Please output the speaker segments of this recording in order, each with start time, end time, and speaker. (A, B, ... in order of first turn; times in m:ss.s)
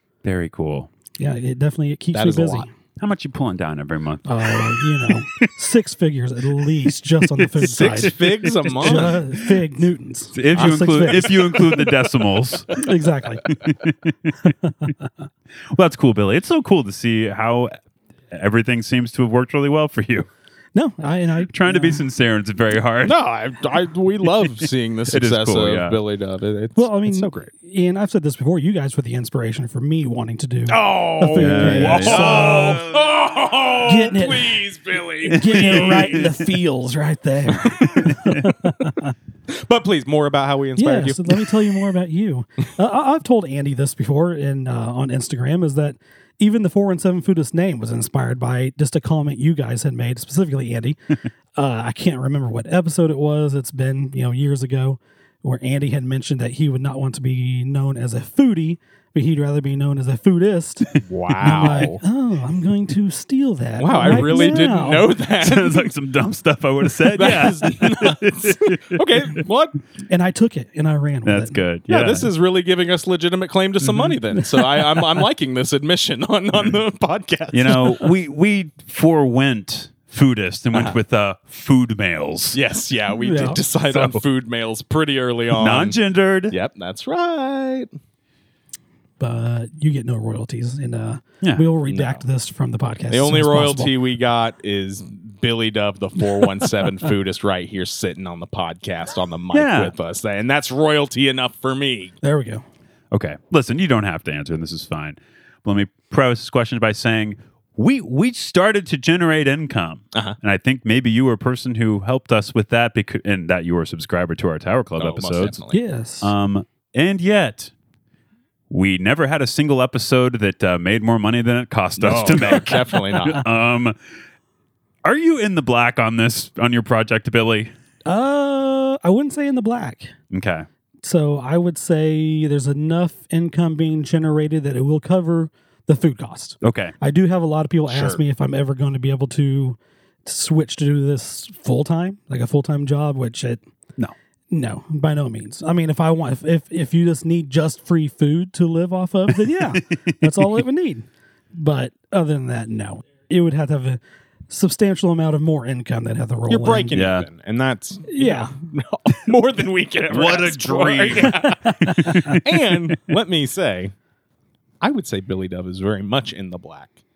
0:00.2-0:00.9 A
0:01.2-0:02.7 B
0:02.1-0:02.7 C
0:03.0-0:05.5 A
0:04.2-0:08.2 B
0:06.6-0:09.5 A
0:07.6-0:09.1 C
0:08.8-0:11.8 B
0:10.3-0:12.8 A
0:10.6-0:11.9 C
0:12.7-0:13.4 B
0:13.4-0:14.9 A
0:15.7-0:17.7 A
0:18.3-0:20.3 A
0:20.7-0:22.0 B
0:21.5-0:23.2 A
0:23.0-0:27.5 C
0:24.4-0:26.0 A
0:26.8-0:32.8 B
0:30.7-0:36.1 C
0:31.3-0:32.8 A
0:33.8-0:34.6 B
0:35.3-0:39.1 B
0:35.3-0:36.5 A
0:37.8-0:38.4 A
0:39.5-0:41.5 C
0:40.8-0:51.0 B
0:51.6-1:00.9 B
1:01.0-1:02.0 C
1:01.3-1:01.8 A
1:01.4-1:05.1 B
1:03.8-1:05.9 C
1:04.0-1:04.5 A
1:05.4-1:09.0 A
1:07.0-1:09.8 C
1:10.1-1:11.6 B
1:11.2-1:12.3 A
1:11.9-1:17.9 C
1:13.8-1:14.1 A
1:17.5-1:22.6 A
1:20.7-1:21.0 C
1:22.5-1:26.0 C
1:23.2-1:23.6 B
1:23.9-1:24.2 A
1:25.5-1:26.6 A
1:26.5-1:27.9 C
1:29.2-1:33.9 B
1:31.8-1:32.2 C
1:33.1-1:42.1 C
1:39.5-1:39.9 A
1:42.2-1:42.6 B
1:43.1-1:55.6 A
1:55.0-1:55.8 C
1:55.7-1:56.3 B
1:56.2-1:57.7 A
1:58.7-2:04.0 A
2:02.0-2:03.5 C
2:05.0-2:07.7 A
2:08.0-2:10.1 B
2:10.3-2:10.6 A
2:11.0-2:23.6 B
2:16.6-2:16.9 A
2:17.9-2:18.2 C
2:24.5-2:37.0 B
2:29.6-2:30.5 A
2:36.5-2:43.9 C
2:36.9-2:37.3 A
2:38.1-2:38.5 B
2:40.1-2:42.9 A
2:44.8-2:47.0 C